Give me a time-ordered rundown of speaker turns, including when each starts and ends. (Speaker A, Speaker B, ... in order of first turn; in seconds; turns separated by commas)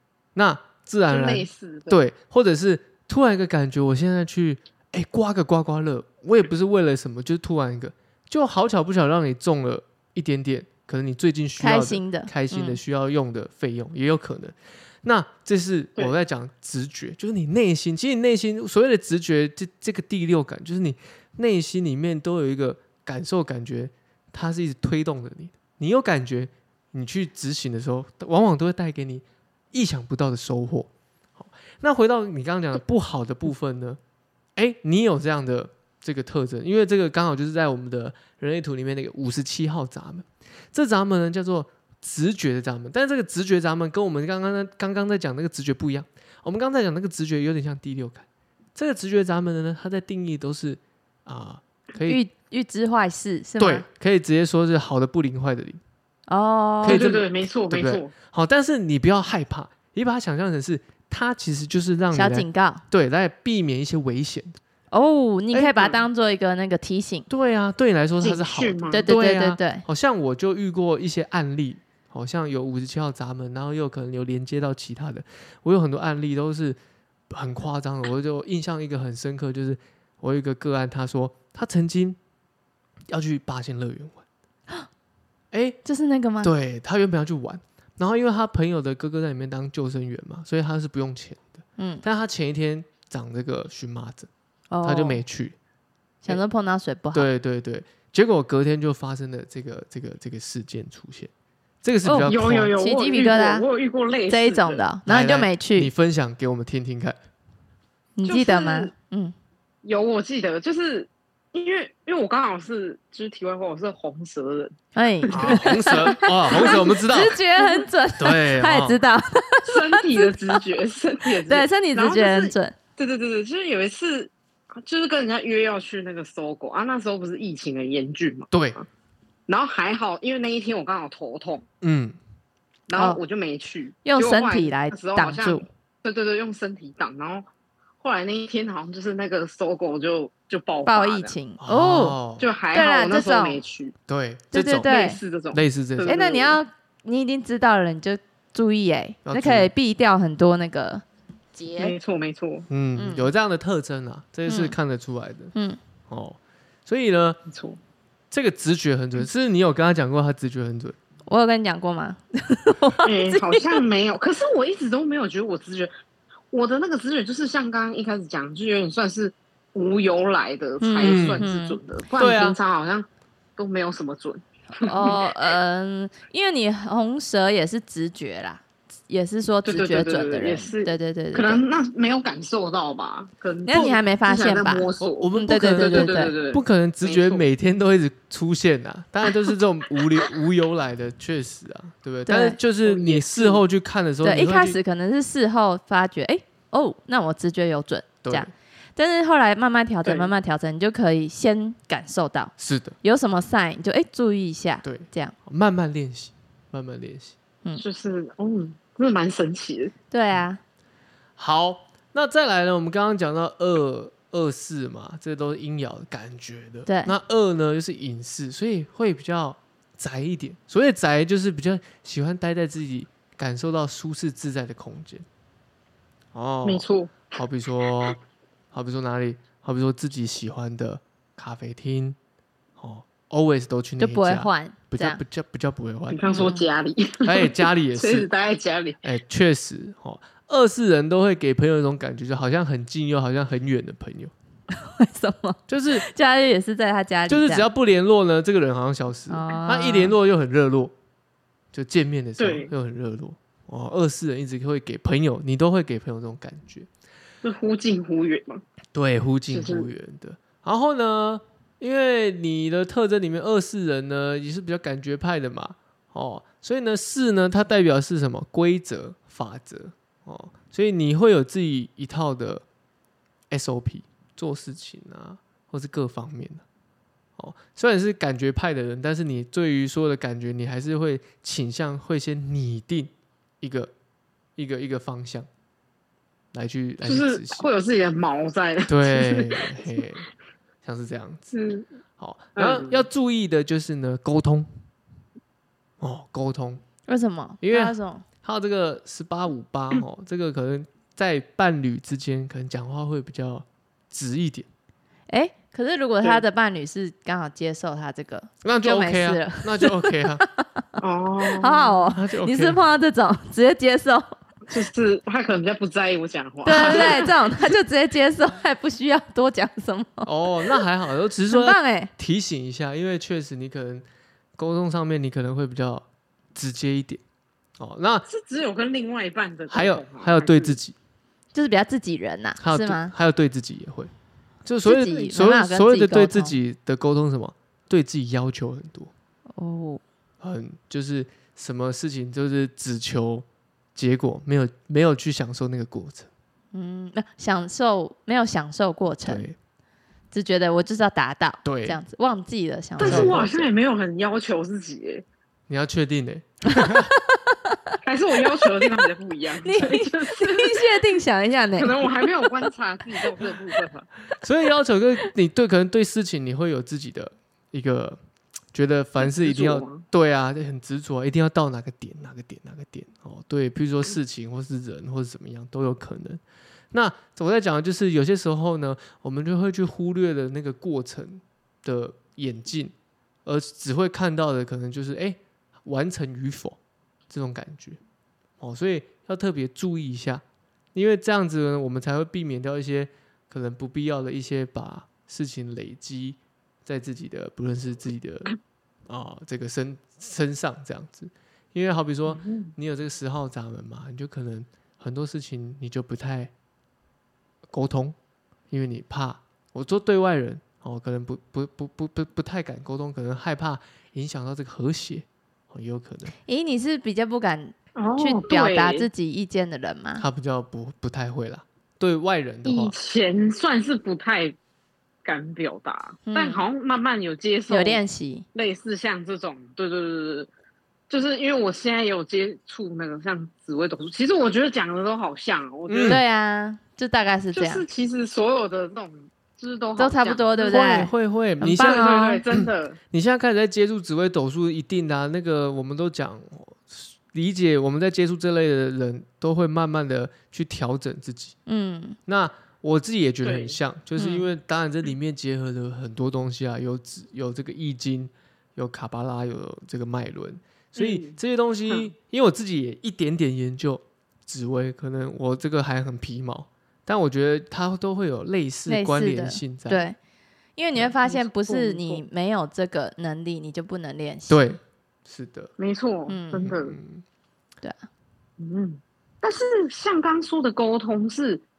Speaker A: 0.3-34.0, Speaker B: 1.1-2.0, Speaker C: 11.6-12.8, Speaker A: 34.5-48.2, Speaker A: 48.8-52.2, Speaker C: 52.1-53.8, Speaker A: 53.6-55.8, Speaker C: 56.3-57.1, Speaker A: 56.8-64.6, Speaker B: 56.8-58.1, Speaker C: 62.1-62.8, Speaker C: 64.9-67.3, Speaker A: 65.5-65.9, Speaker A: 67.3-76.8, Speaker B: 68.2-69.1, Speaker C: 68.9-69.8, Speaker A: 77.3-82.2, Speaker A: 83.1-84.2, Speaker A: 85.5-85.8, Speaker C: 85.8-86.5, Speaker A: 86.4-94.3, Speaker C: 91.8-92.0, Speaker C: 94.7-95.2, Speaker A: 94.8-95.5, Speaker C: 96.2-97.3, Speaker A: 97.1-101.3, Speaker A: 101.8-102.7, Speaker C: 102.0-103.7, Speaker B: 102.3-104.8, Speaker C: 104.3-105.9, Speaker A: 105.0-107.2, Speaker C: 108.2-109.3, Speaker B: 108.2-108.9, Speaker B: 109.8-114.7, Speaker C: 114.9-120.6, Speaker B: 115.3-116.8, Speaker A: 115.3-117.4, Speaker B: 117.6-117.8, Speaker A: 118.2-119.0, Speaker B: 119.7-128.8, Speaker C: 121.4-122.7, Speaker A: 128.5-128.8, Speaker B: 129.5-131.6, Speaker A: 131.8-132.2, Speaker B: 132.9-137.5, Speaker C: 132.9-133.2, Speaker C: 134.0-135.6, Speaker B: 138.0-141.3, Speaker C: 140.8-142.2, Speaker A: 141.6-142.5, Speaker B: 142.4-143.9, Speaker C: 142.7-143.6, Speaker A: 144.1-144.9, Speaker C: 144.5-145.2, Speaker B: 144.8-146.6, Speaker A: 145.5-146.1, Speaker C: 146.1-151.0, Speaker A: 149.2-149.7, Speaker C: 151.5-151.9, Speaker B: 151.8-152.7, Speaker A: 152.7-155.5, Speaker C: 153.0-153.3, Speaker C: 154.5-154.7, Speaker A: 156.1-157.4, Speaker B: 157.5-157.8, Speaker A: 158.3-160.9, Speaker C: 161.3-163.8, Speaker B: 163.0-165.9, Speaker B: 166.5-175.5, Speaker C: 170.8-171.8, Speaker A: 171.0-171.4, Speaker A: 172.2-172.6, Speaker C: 174.8-181.6, Speaker B: 179.6-187.4, Speaker C: 183.7-186.3, Speaker A: 185.0-194.8, Speaker C: 192.3-192.6, Speaker B: 192.8-193.6, Speaker C: 194.2-205.3, Speaker A: 198.2-198.5, Speaker B: 200.0-200.3, Speaker A: 202.6-202.9, Speaker A: 204.8-207.3, Speaker B: 207.8-209.9, Speaker C: 210.1-210.6, Speaker A: 211.4-225.2, Speaker C: 216.9-217.1, Speaker A: 226.3-228.2, Speaker B: 226.6-227.3, Speaker A: 228.7-232.2, Speaker A: 232.8-236.5, Speaker C: 234.0-235.2, Speaker B: 236.1-239.0, Speaker C: 236.3-236.6, Speaker A: 237.2-238.3, Speaker A: 239.0-244.3, Speaker C: 244.7-247.7, Speaker A: 245.7-246.0, Speaker A: 247.3-250.9, Speaker C: 249.3-250.1, Speaker A: 251.7-256.9, Speaker B: 252.4-252.7, Speaker B: 257.4-258.6, Speaker A: 258.9-272.6, Speaker B: 259.5-259.9, Speaker A: 273.5-276.6, Speaker A: 277.4-283.9, Speaker A: 284.6-285.5, Speaker A: 286.5-287.7, Speaker B: 287.0-290.0, Speaker A: 288.9-290.2, Speaker A: 290.8-291.5, Speaker B: 291.5-291.9, Speaker A: 292.2-294.7, Speaker B: 292.6-293.0, Speaker A: 296.0-296.8, Speaker C: 297.1-298.2, Speaker A: 297.6-304.7, Speaker C: 305.3-310.8, Speaker A: 308.6-310.4, Speaker B: 311.0-312.1, Speaker C: 311.5-314.3, Speaker A: 312.1-312.8, Speaker B: 314.7-317.7, Speaker C: 316.6-320.3, Speaker A: 316.7-317.2, Speaker A: 320.2-324.0, Speaker C: 321.5-322.1, Speaker A: 324.6-327.2, Speaker A: 327.8-328.2, Speaker B: 328.3-330.8, Speaker A: 329.7-330.9, Speaker C: 331.5-333.1, Speaker A: 332.6-334.1, Speaker A: 334.6-339.1, Speaker C: 334.8-336.6, Speaker C: 339.6-340.0, Speaker A: 340.4-346.3, Speaker C: 346.7-349.5, Speaker A: 349.2-349.5, Speaker C: 350.3-353.7, Speaker A: 351.6-352.0, Speaker A: 353.0-353.5, Speaker B: 353.0-355.2, Speaker A: 355.7-357.1, Speaker C: 356.7-357.9, Speaker B: 358.0-361.0, Speaker C: 359.6-362.7, Speaker B: 361.8-364.1, Speaker A: 364.4-368.2, Speaker A: 368.7-376.4, Speaker B: 369.2-370.0, Speaker A: 376.9-382.9, Speaker A: 383.4-386.8, Speaker A: 387.3-388.0, Speaker A: 388.6-390.4, Speaker A: 390.9-398.5, Speaker A: 399.1-406.5, Speaker B: 402.3-402.7, Speaker A: 407.7-408.1, Speaker A: 408.7-416.3, Speaker C: 416.4-420.2, Speaker B: 417.9-419.1, Speaker A: 420.2-422.9, Speaker B: 422.6-424.6, Speaker B: 425.2-428.0, Speaker C: 426.2-426.6, Speaker C: 427.7-428.4, Speaker B: 428.5-430.5, Speaker B: 431.1-436.2, Speaker A: 435.9-436.2, Speaker C: 436.1-437.8, Speaker B: 437.5-440.9, Speaker C: 440.0-442.4, Speaker A: 440.6-451.6, Speaker B: 441.6-443.0, Speaker C: 451.6-452.2, Speaker A: 452.3-470.0, Speaker B: 453.4-453.8, Speaker C: 454.2-454.5, Speaker B: 460.9-461.4, Speaker C: 468.9-470.1, Speaker C: 470.8-474.7, Speaker B: 471.2-472.2, Speaker A: 474.5-475.7, Speaker B: 475.8-476.9, Speaker C: 476.3-476.7, Speaker A: 476.6-477.2, Speaker B: 478.6-481.6